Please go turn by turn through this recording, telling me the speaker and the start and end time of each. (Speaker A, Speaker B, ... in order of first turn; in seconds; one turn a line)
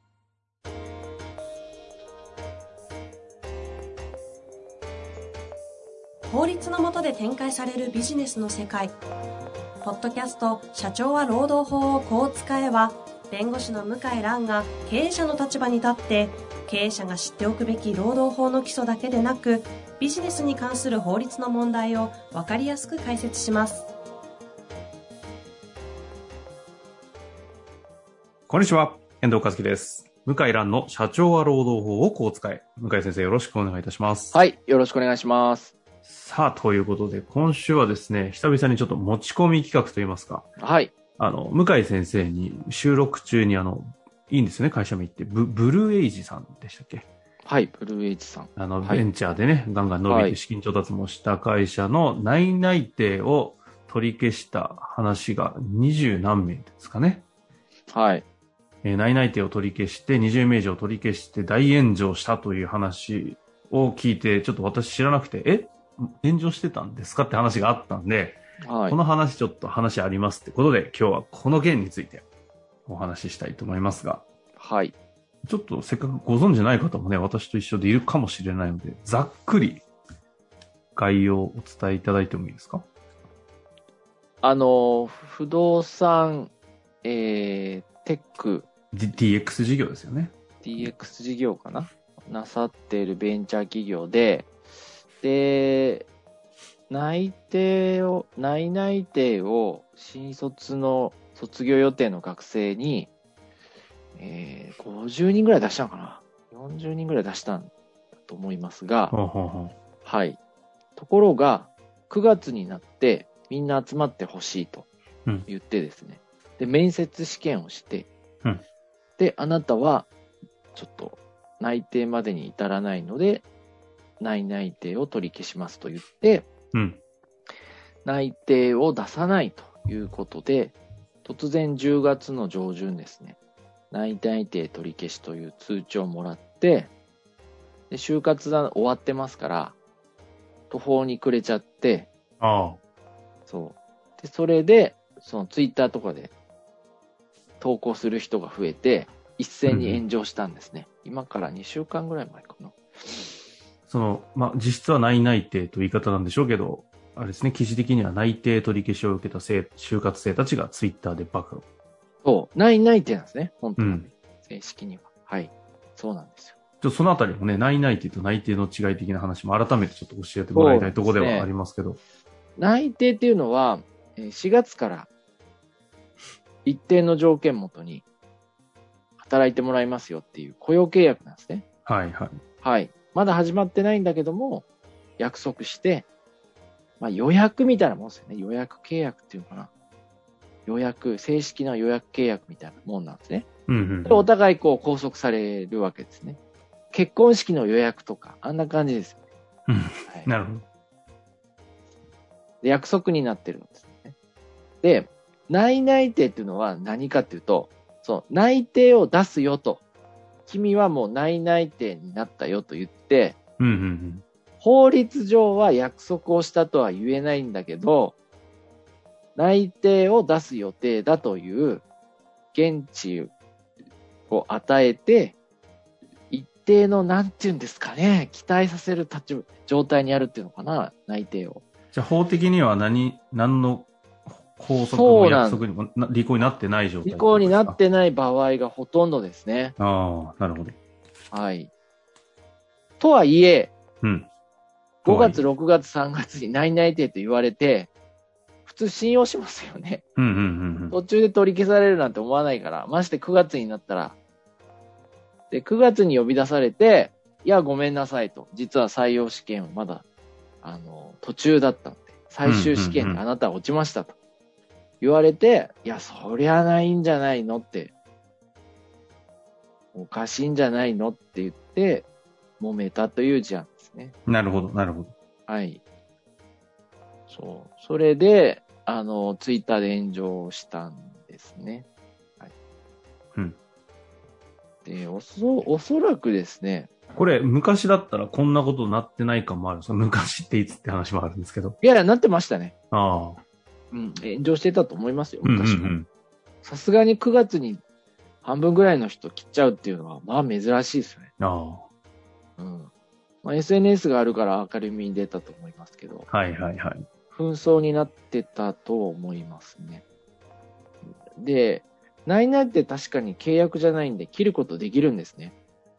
Speaker A: 6.2-8.9
Speaker A: 9.8-23.9
Speaker B: 28.5-34.4
Speaker C: 34.3-35.7
Speaker B: 36.0-40.5
Speaker C: 40.6-40.9
Speaker B: 41.2-47.1
Speaker C: 47.4-49.0
Speaker B: 48.5-57.2
Speaker C: 50.1-50.4
Speaker C: 57.9-58.2
Speaker B: 58.8-72.2
Speaker C: 68.6-69.0
Speaker B: 72.9-74.3
Speaker C: 74.5-74.9
Speaker B: 75.5-79.8
Speaker B: 81.0-82.9
Speaker C: 84.4-86.5
Speaker C: 87.0-88.7
Speaker B: 88.9-90.3
Speaker C: 90.6-94.5
Speaker C: 95.2-96.1
Speaker C: 96.9-103.1
Speaker C: 104.2-109.1
Speaker B: 109.1-109.7
Speaker C: 110.0-110.4
Speaker C: 111.0-114.9
Speaker C: 115.5-118.1
Speaker C: 119.2-120.1
Speaker C: 120.7-123.5
Speaker C: 124.2-126.5
Speaker B: 126.7-127.0
Speaker C: 128.0-133.4
Speaker C: 133.9-136.9
Speaker C: 137.9-139.8
Speaker C: 140.7-142.1
Speaker B: 142.4-142.8
Speaker C: 143.5-146.3
Speaker C: 147.6-152.8
Speaker B: 149.7-150.0
Speaker B: 153.9-161.7
Speaker C: 162.2-166.6
Speaker B: 163.8-164.1
Speaker B: 166.8-172.0
Speaker C: 170.5-171.5
Speaker C: 172.6-175.1
Speaker C: 176.6-178.0
Speaker C: 179.2-181.6
Speaker B: 181.8-182.4
Speaker C: 182.6-184.7
Speaker C: 185.2-186.1
Speaker C: 187.0-189.7
Speaker C: 190.7-193.5
Speaker B: 193.7-194.2
Speaker C: 194.0-196.4
Speaker C: 196.9-199.2
Speaker B: 199.7-200.6
Speaker C: 202.6-204.1
Speaker C: 204.8-209.8
Speaker C: 210.4-213.4
Speaker B: 213.6-214.2
Speaker C: 214.6-218.2
Speaker C: 219.3-221.8
Speaker C: 222.5-223.3
Speaker C: 224.3-225.4
Speaker C: 226.3-231.6
Speaker B: 231.9-237.8
Speaker C: 234.8-235.6
Speaker C: 237.0-239.7
Speaker B: 239.8-240.8
Speaker C: 241.3-241.7
Speaker C: 243.0-243.7
Speaker B: 244.0-244.3
Speaker C: 245.0-247.9
Speaker B: 245.1-245.4
Speaker C: 248.6-250.0
Speaker B: 250.2-251.0
Speaker C: 250.9-254.2
Speaker C: 255.5-260.0
Speaker C: 260.6-264.1
Speaker B: 262.4-263.2
Speaker C: 265.0-267.9
Speaker C: 269.9-272.1
Speaker C: 272.6-274.1
Speaker B: 274.2-275.1
Speaker C: 275.5-275.8
Speaker C: 277.3-281.9
Speaker C: 284.8-286.9
Speaker B: 287.1-291.8
Speaker C: 291.8-292.7
Speaker B: 292.9-293.4
Speaker C: 293.9-295.9
Speaker B: 295.4-296.1
Speaker C: 296.6-297.8
Speaker C: 298.4-301.3
Speaker B: 301.4-301.9
Speaker C: 302.6-302.9
Speaker C: 303.4-306.3
Speaker B: 306.3-307.0
Speaker C: 307.3-310.0
Speaker C: 311.4-315.5